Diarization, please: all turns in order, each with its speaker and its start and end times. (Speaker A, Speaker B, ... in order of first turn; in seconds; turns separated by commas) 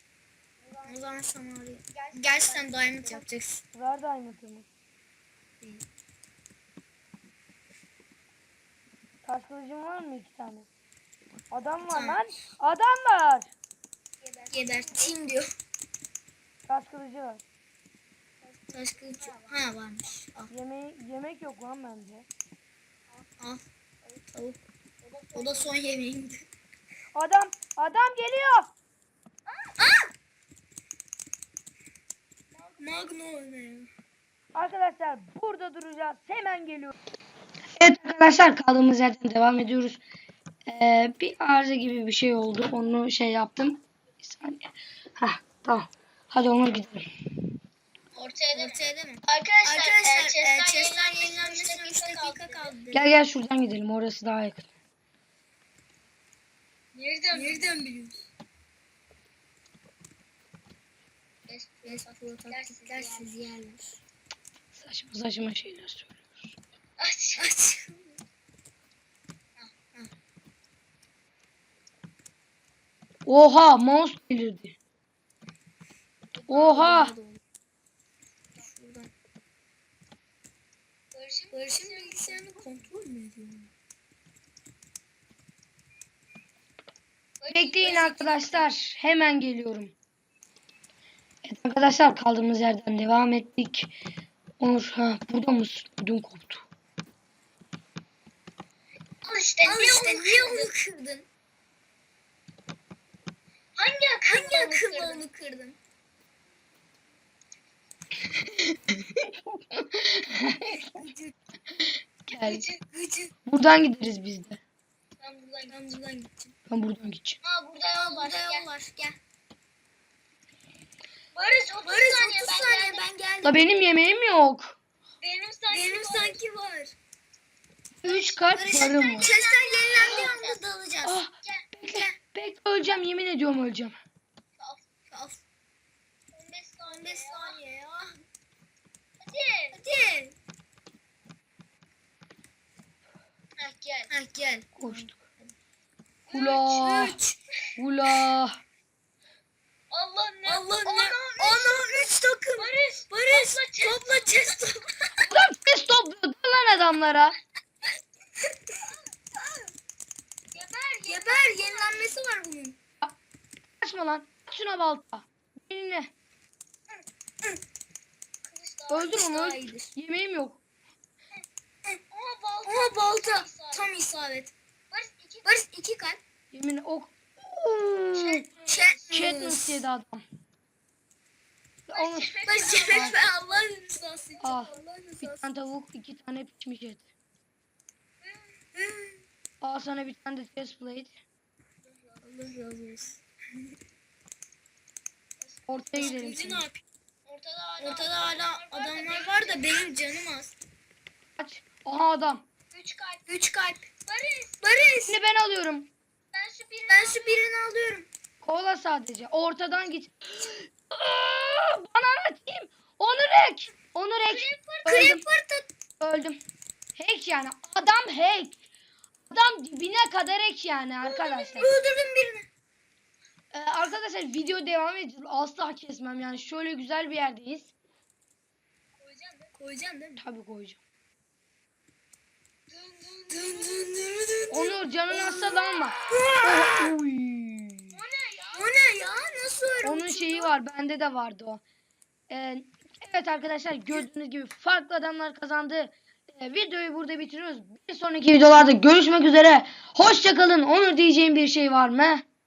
Speaker A: 0.6-0.9, Speaker B: 0.8-3.6, Speaker A: 1.9-3.3, Speaker C: 3.7-4.7, Speaker C: 9.2-10.7, Speaker C: 11.5-13.5, Speaker B: 11.9-12.2, Speaker A: 14.2-15.1, Speaker B: 14.5-15.5, Speaker C: 16.7-17.4, Speaker A: 18.4-19.6, Speaker B: 18.7-20.5, Speaker C: 20.5-22.3, Speaker B: 24.3-24.6, Speaker A: 25.0-25.7, Speaker B: 25.3-26.4, Speaker C: 27.1-28.7, Speaker A: 29.5-29.8, Speaker B: 32.8-33.9, Speaker C: 34.5-36.9, Speaker C: 37.8-40.0, Speaker C: 40.6-47.1, Speaker A: 48.1-52.8, Speaker B: 48.5-53.1, Speaker C: 52.9-54.7, Speaker A: 56.9-57.8, Speaker B: 57.3-58.2, Speaker A: 61.5-61.9, Speaker B: 61.8-64.0, Speaker A: 62.5-63.3, Speaker C: 64.7-66.5, Speaker A: 67.0-67.5, Speaker B: 67.4-68.2, Speaker C: 73.2-74.7, Speaker B: 76.4-77.4, Speaker C: 76.5-77.1, Speaker B: 78.6-79.1, Speaker A: 81.1-82.9, Speaker B: 81.5-83.7, Speaker A: 87.4-88.7, Speaker C: 87.5-89.9, Speaker C: 91.4-93.9, Speaker C: 94.6-96.6, Speaker A: 99.2-100.7, Speaker B: 99.6-101.3, Speaker A: 103.8-105.2, Speaker B: 104.3-105.8, Speaker C: 108.5-110.8, Speaker C: 112.3-112.6, Speaker A: 112.4-112.8, Speaker B: 113.0-113.3, Speaker C: 113.5-114.6, Speaker A: 115.2-115.8, Speaker B: 115.7-116.5, Speaker C: 116.7-117.4, Speaker A: 117.4-118.7, Speaker B: 117.9-119.2, Speaker A: 121.3-123.0, Speaker B: 121.8-123.6, Speaker C: 123.4-124.8, Speaker A: 125.2-126.4, Speaker B: 125.7-126.9, Speaker C: 128.0-129.3, Speaker B: 128.1-131.2, Speaker A: 128.9-130.6, Speaker C: 131.0-134.0, Speaker B: 131.9-132.1, Speaker A: 134.6-134.8, Speaker B: 135.1-135.4, Speaker A: 136.3-137.6, Speaker B: 136.8-138.2, Speaker A: 139.2-139.8, Speaker B: 139.7-140.3, Speaker A: 143.6-144.1, Speaker B: 144.1-145.5, Speaker C: 144.8-145.2, Speaker C: 146.3-147.2, Speaker B: 146.3-147.4, Speaker C: 147.8-148.6, Speaker A: 149.9-154.6, Speaker B: 150.4-154.9, Speaker C: 155.2-157.4, Speaker A: 158.7-159.0, Speaker A: 160.5-162.2, Speaker B: 161.1-162.8, Speaker C: 163.8-166.1, Speaker A: 168.4-169.1, Speaker C: 168.9-170.6, Speaker B: 169.0-169.9, Speaker A: 172.1-173.9, Speaker B: 172.6-174.5, Speaker A: 174.9-175.6, Speaker B: 175.4-176.2, Speaker C: 176.5-178.4, Speaker A: 178.1-179.0, Speaker B: 178.7-179.8, Speaker C: 179.1-180.2, Speaker C: 181.9-183.2, Speaker A: 181.9-183.7, Speaker B: 182.5-185.4, Speaker A: 184.3-184.7, Speaker C: 184.4-187.0, Speaker B: 188.7-189.2, Speaker C: 189.6-191.1, Speaker A: 191.9-192.2, Speaker B: 192.2-193.2, Speaker A: 195.4-196.5, Speaker C: 195.7-196.7, Speaker B: 196.0-196.7, Speaker A: 197.2-199.9, Speaker B: 197.8-200.5, Speaker C: 201.4-202.4, Speaker A: 202.7-204.9, Speaker B: 204.6-205.2, Speaker C: 205.1-205.9, Speaker A: 206.3-207.4, Speaker B: 206.9-208.1, Speaker C: 208.4-215.2, Speaker A: 214.2-215.0, Speaker B: 214.9-215.7, Speaker C: 216.0-216.4, Speaker C: 216.9-218.6, Speaker C: 219.3-221.7, Speaker B: 221.0-222.5, Speaker C: 223.5-227.7, Speaker A: 229.0-229.5, Speaker B: 229.6-230.2, Speaker C: 230.2-230.8, Speaker A: 232.7-233.9, Speaker B: 233.3-235.4, Speaker C: 234.5-237.9, Speaker B: 236.1-236.8, Speaker A: 237.9-239.7, Speaker B: 238.5-240.5, Speaker C: 239.8-241.6, Speaker C: 242.3-252.2